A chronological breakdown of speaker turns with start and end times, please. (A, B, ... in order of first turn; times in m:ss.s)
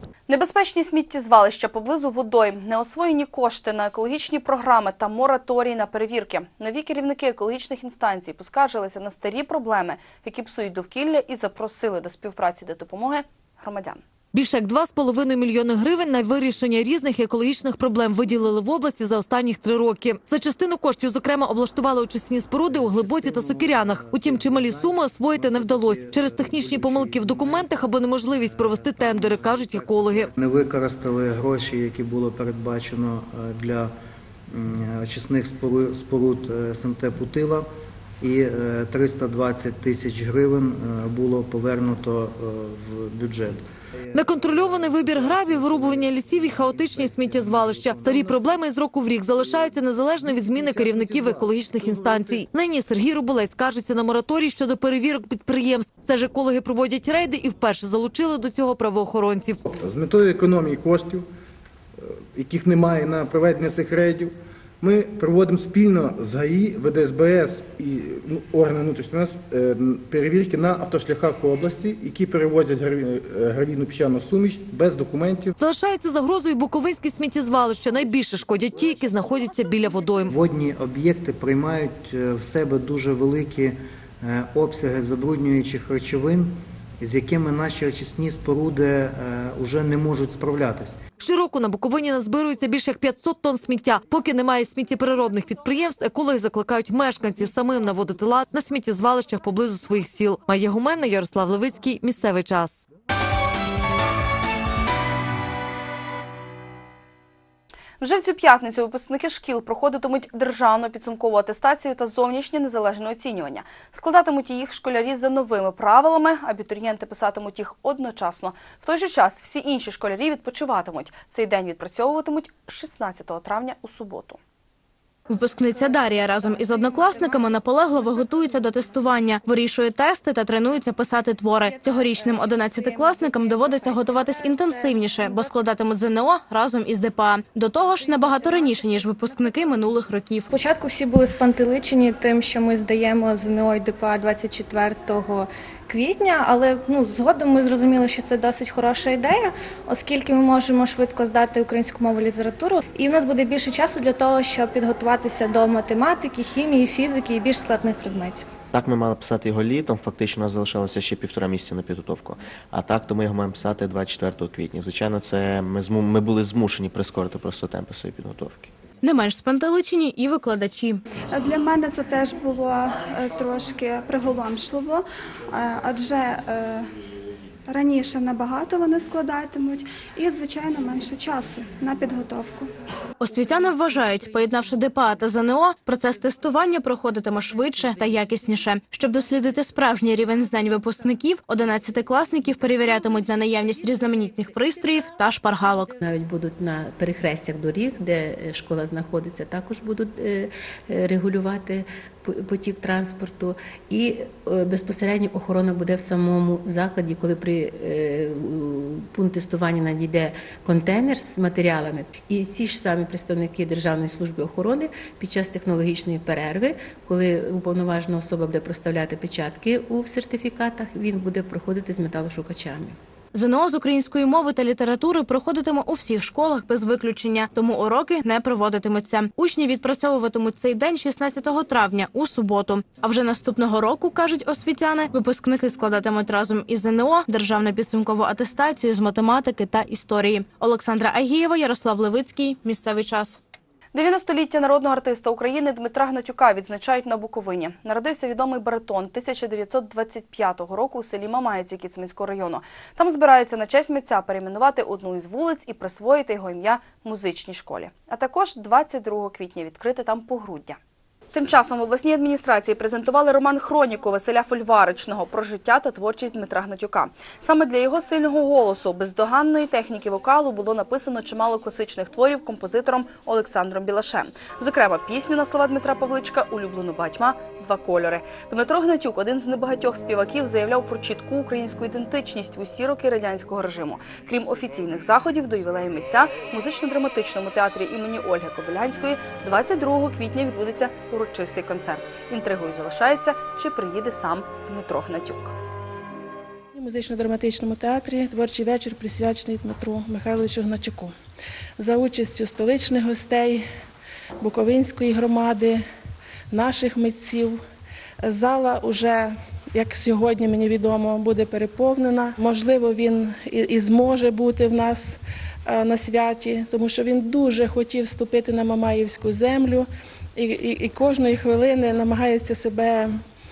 0:00.3-0:14.0 A
0:14.3-0:30.3 B
0:22.6-0:33.9 C
0:34.5-0:37.7 C
0:38.2-0:48.6 C
0:44.1-0:59.6 B
0:49.4-0:52.4 C
0:59.7-1:01.2 D
1:02.3-1:15.5 D
1:15.6-1:20.3 B
1:20.3-1:31.0 C
1:31.2-1:42.8 B
1:48.0-2:04.4 A
2:05.3-2:20.5 E
2:20.5-2:38.4 F
2:38.7-2:48.7 G
2:49.0-2:51.0 E
2:51.3-2:56.9 H
2:57.7-3:02.7 H
3:03.2-3:16.0 E
3:16.0-3:43.0 I
3:43.3-4:03.4 E
4:03.9-4:20.8 A
4:21.3-4:55.6 A
4:56.8-5:01.1 J
5:01.8-5:03.6 J
5:04.4-5:05.8 J
5:06.5-5:07.6 J
5:08.2-5:23.1 J